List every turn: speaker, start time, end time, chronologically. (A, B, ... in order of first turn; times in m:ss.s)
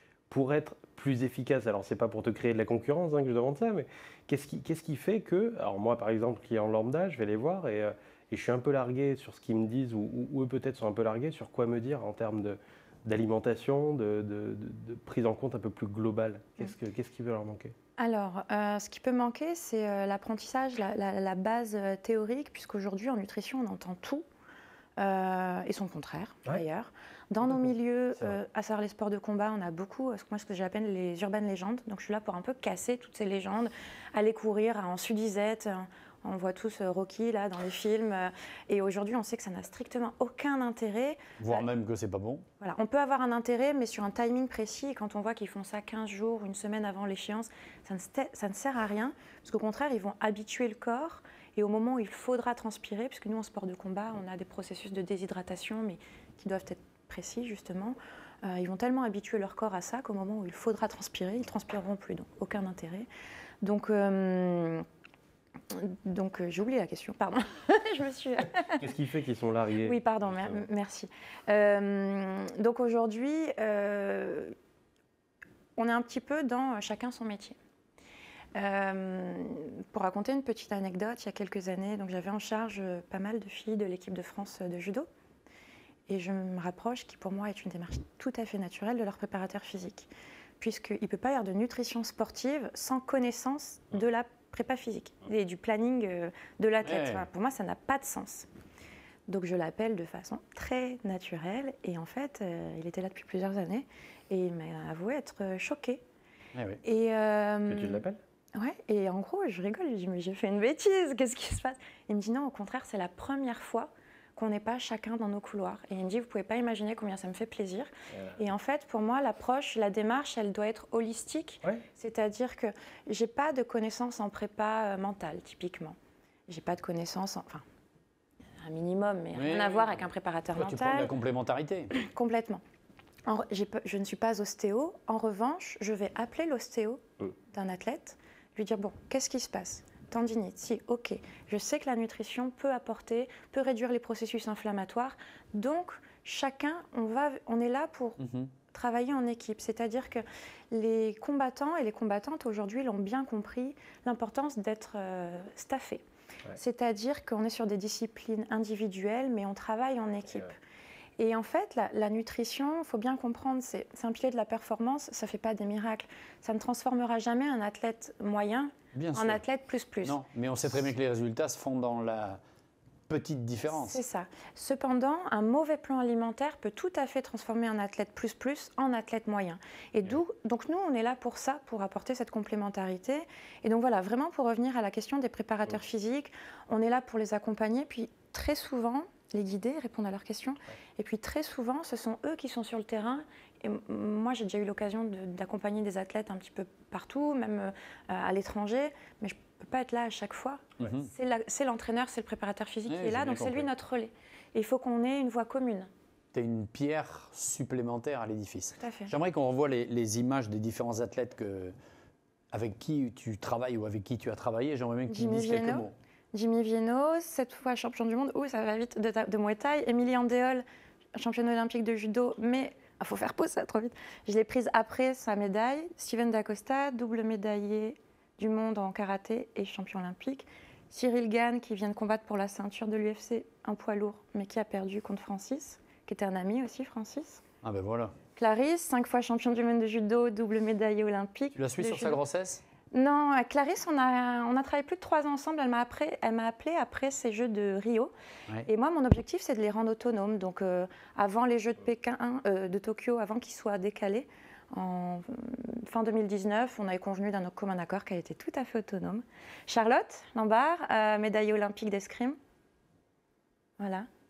0:00.3-0:17.7 A
0:18.0-0:24.2 B
0:25.0-0:41.6 B
0:41.4-0:42.4 C
0:42.6-1:03.1 B
1:03.6-1:04.8 B
1:05.7-1:08.8 B
1:08.8-1:10.0 A
1:09.8-1:14.5 B
1:15.8-1:17.6 B
1:18.5-1:25.1 B
1:26.1-1:38.5 B
1:36.8-1:37.2 C
1:39.3-1:46.0 B
1:46.5-1:46.8 C
1:46.8-1:48.0 B
1:47.6-1:48.2 A
1:48.5-2:06.0 B
2:06.5-2:07.6 B
2:08.6-2:11.1 B
2:09.3-2:09.9 C
2:10.5-2:11.9 C
2:11.9-2:12.6 B
2:13.2-2:28.2 B
2:28.2-2:28.5 C
2:28.7-2:36.0 B
2:36.5-2:40.5 B
2:41.2-2:50.2 B
2:48.9-2:49.4 C
2:50.0-2:52.4 C
2:53.1-2:54.0 C
2:53.7-3:25.9 B
3:20.8-3:21.1 C
3:22.9-3:23.7 C
3:26.3-3:31.7 C
3:28.8-3:29.1 B
3:32.5-3:35.9 C
3:35.1-3:40.6 B
3:41.1-3:57.4 B
3:57.6-3:58.1 C
3:58.4-4:02.2 B
4:01.6-4:02.6 C
4:02.9-4:08.1 B
4:08.6-4:22.4 B
4:23.8-4:24.1 B